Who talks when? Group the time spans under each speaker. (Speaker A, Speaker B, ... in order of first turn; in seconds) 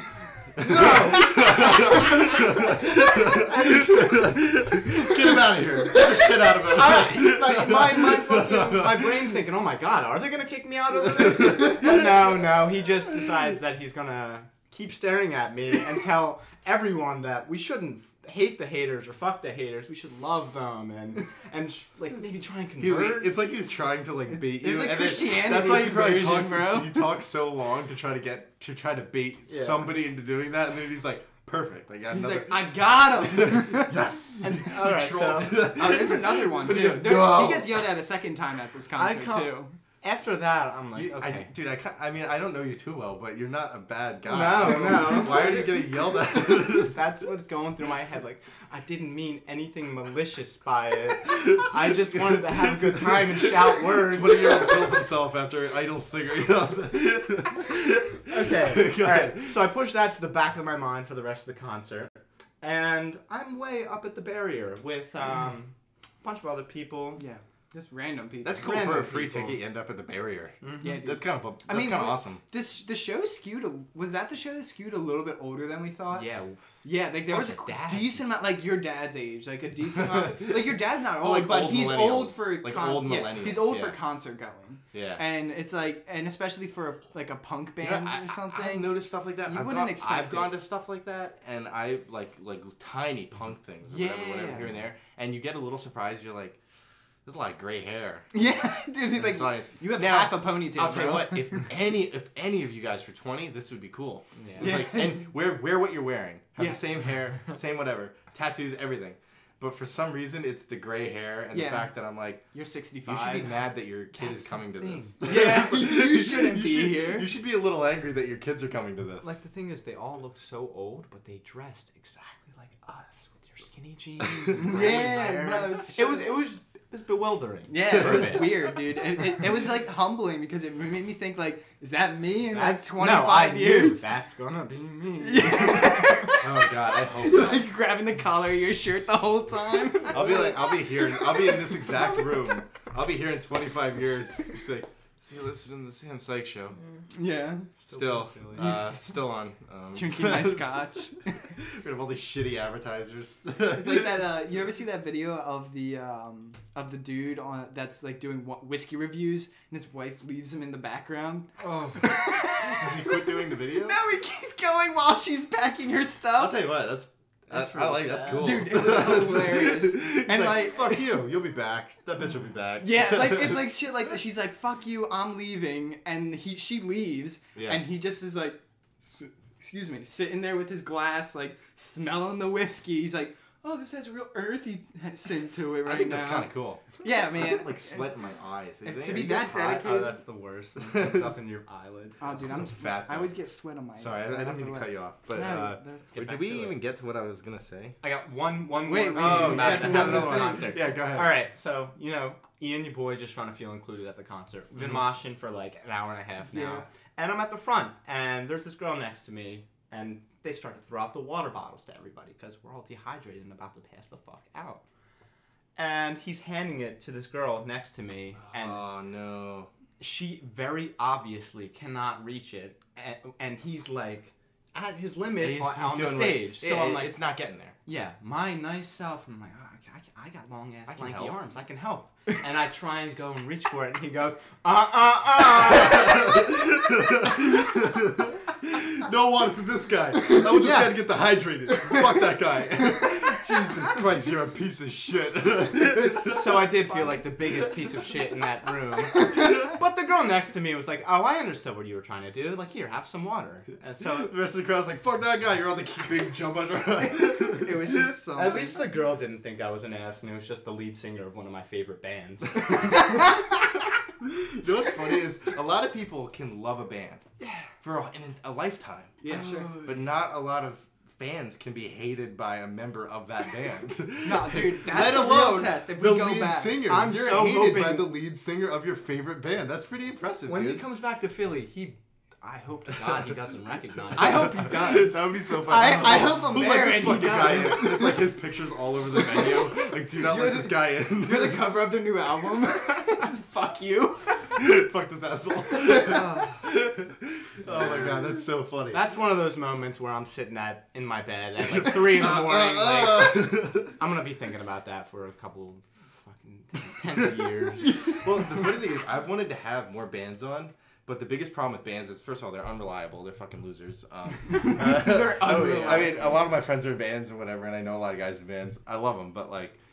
Speaker A: 0.5-2.0, 6.6-23.3, 29.5-29.9, 34.4-35.7, 38.9-41.5, 44.2-45.7, 46.5-55.0, 58.3-67.2, 68.6-69.6, 70.6-71.0, 76.1-76.7, 77.3-78.4, 104.4-104.8, 119.2-128.7, 132.5-136.2, 147.8-148.8, 161.6-161.9, 167.5-168.7, 189.7-192.4, 196.1-196.8, 198.0-214.8, 215.8-218.8, 220.0-227.1, 227.8-236.5, 245.9-254.3, 258.4-263.2, 267.4-267.7, 269.2-270.0, 276.8-278.1, 280.4-285.0, 298.9-308.1, 314.8-316.2
Speaker B: 0.6-9.4, 11.1-12.4, 22.8-37.8, 40.9-47.0, 51.5-59.5, 68.4-72.4, 80.0-80.5, 81.2-84.0, 84.9-85.2, 87.8-96.6, 97.2-98.3, 99.1-112.4, 113.0-119.4, 127.9-128.3, 135.9-137.6, 140.1-146.8, 147.9-150.9, 151.5-154.3, 162.3-164.0, 166.4-173.7, 177.5-177.8, 185.8-189.8, 190.8-191.4, 192.3-193.3, 194.0-198.0, 199.1-201.3, 218.5-219.7, 225.4-227.8, 230.9-231.3, 235.7-246.9, 254.0-258.2, 264.2-267.2, 267.8-269.2, 269.8-280.8, 284.1-291.9, 294.6-299.0, 301.6-304.0, 308.1-319.8
Speaker C: 0.6-2.5, 24.4-27.1, 32.1-34.0, 35.6-39.7, 45.0-45.5, 67.2-68.8, 70.8-76.3, 76.8-90.5, 93.9-94.7, 98.3-101.7, 104.6-105.2, 111.5-111.9, 112.5-113.5, 114.2-117.3, 124.5-126.3, 127.7-134.1, 135.2-142.4, 147.1-147.7, 148.6-149.0, 149.9-151.5, 153.7-166.6, 168.3-171.1, 172.8-188.1, 188.8-190.1, 192.2-196.2, 198.8-200.7, 206.5-206.8, 257.3-258.8, 269.2-269.7, 274.2-276.9, 284.1-288.3, 289.1-294.6, 295.7-296.7, 314.5-316.3